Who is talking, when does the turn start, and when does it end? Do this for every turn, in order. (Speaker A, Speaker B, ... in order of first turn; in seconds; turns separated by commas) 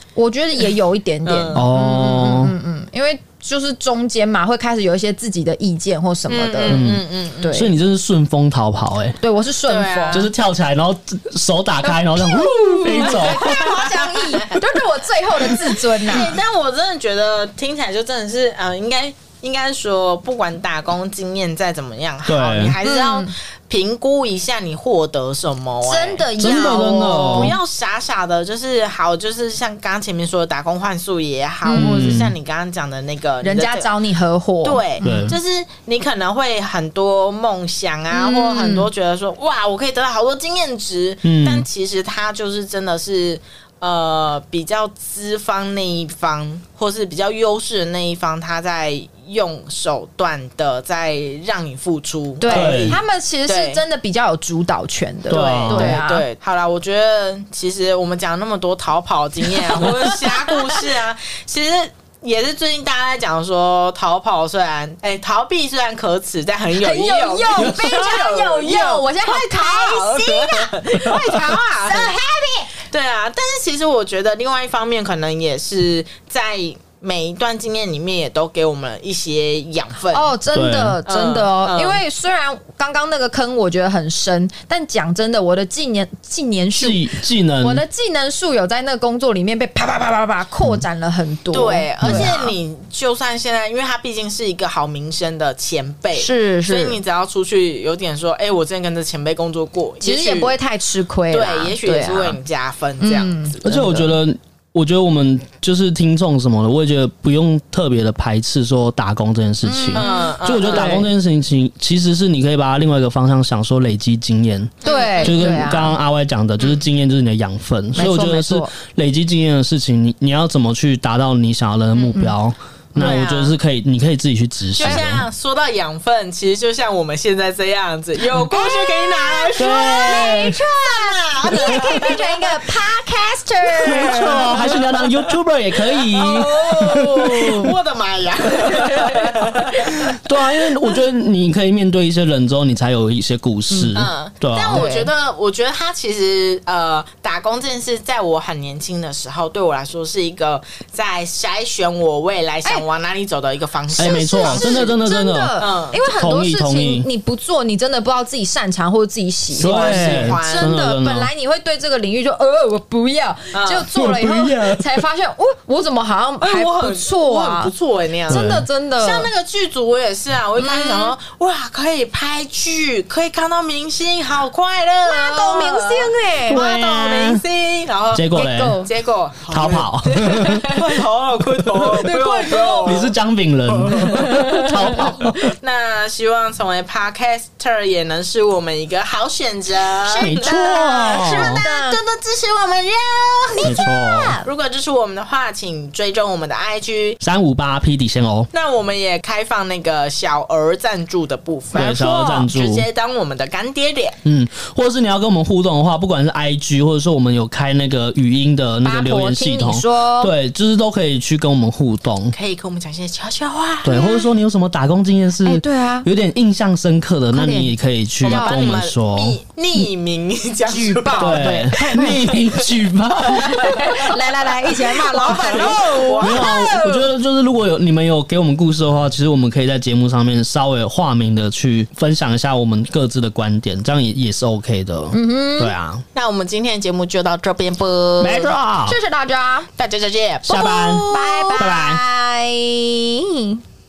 Speaker A: 0.1-6.8, Speaker B: 1.2-1.6, Speaker C: 1.5-2.5, Speaker B: 6.3-7.6, Speaker C: 6.7-9.2, Speaker A: 7.4-7.7, Speaker A: 9.2-10.3, Speaker B: 9.7-10.3, Speaker C: 10.1-13.7, Speaker A: 11.8-16.4, Speaker B: 12.8-14.6, Speaker B: 15.5-33.9, Speaker C: 22.2-22.7, Speaker A: 22.8-23.3, Speaker A: 25.8-27.5, Speaker C: 26.4-27.5, Speaker A: 31.6-32.1, Speaker C: 31.7-32.3, Speaker A: 33.4-35.4, Speaker B: 34.6-53.8, Speaker C: 35.0-35.4, Speaker A: 38.1-38.9, Speaker C: 41.2-41.6, Speaker A: 52.4-56.2, Speaker C: 52.5-53.0, Speaker C: 55.3-56.0, Speaker B: 55.3-72.2, Speaker A: 59.8-60.8, Speaker A: 66.8-72.7, Speaker B: 72.7-80.3, Speaker A: 80.1-92.5, Speaker C: 80.5-81.0, Speaker B: 81.0-82.0, Speaker C: 86.7-87.8, Speaker B: 91.5-100.6, Speaker C: 92.0-92.4, Speaker A: 96.1-97.0, Speaker A: 100.0-102.4, Speaker B: 101.3-103.9, Speaker A: 103.0-104.0, Speaker C: 103.6-125.3, Speaker A: 109.6-111.1, Speaker B: 109.9-111.0, Speaker B: 114.8-115.5, Speaker A: 114.8-116.0, Speaker A: 118.0-118.7, Speaker B: 123.0-123.5, Speaker A: 123.0-123.4, Speaker B: 124.8-132.8, Speaker A: 128.5-134.8, Speaker C: 129.6-130.6, Speaker C: 131.5-132.1, Speaker B: 133.6-135.1, Speaker C: 133.8-137.7, Speaker B: 136.1-140.1, Speaker A: 136.3-137.7, Speaker C: 140.0-144.9, Speaker A: 143.7-144.0, Speaker B: 143.9-154.9, Speaker A: 144.7-145.1, Speaker C: 153.9-157.1, Speaker A: 154.0-167.7, Speaker B: 155.6-156.0, Speaker B: 159.5-160.7, Speaker C: 159.6-161.3, Speaker B: 163.5-163.9, Speaker C: 163.9-165.0, Speaker B: 166.4-168.4, Speaker C: 168.3-168.6, Speaker A: 168.3-169.3, Speaker B: 169.0-183.1, Speaker A: 170.6-171.1, Speaker A: 175.0-176.6, Speaker C: 176.5-177.4, Speaker C: 178.1-178.8, Speaker A: 178.3-178.9, Speaker C: 179.5-180.7, Speaker A: 180.1-180.8, Speaker A: 182.0-183.1, Speaker C: 182.8-185.4, Speaker A: 183.9-185.5, Speaker B: 184.9-193.8, Speaker A: 190.0-192.0, Speaker C: 190.2-191.6, Speaker A: 193.6-194.5, Speaker C: 193.6-194.4, Speaker B: 194.4-197.2, Speaker C: 197.2-198.5, Speaker B: 198.5-204.2, Speaker C: 201.7-202.9, Speaker C: 204.2-212.3, Speaker A: 208.8-210.3, Speaker B: 212.3-214.0, Speaker C: 213.8-219.4, Speaker A: 213.8-214.3, Speaker A: 215.4-216.1, Speaker A: 217.3-217.7, Speaker B: 218.2-222.8, Speaker A: 218.2-218.8, Speaker A: 220.7-222.4, Speaker C: 221.2-223.8, Speaker A: 223.2-227.1, Speaker B: 223.6-224.0, Speaker B: 224.7-226.7, Speaker C: 225.4-236.0, Speaker A: 235.1-235.7, Speaker B: 236.1-238.5, Speaker C: 238.2-239.0, Speaker A: 238.8-239.7, Speaker B: 239.8-241.8, Speaker C: 240.5-242.0, Speaker A: 240.5-243.6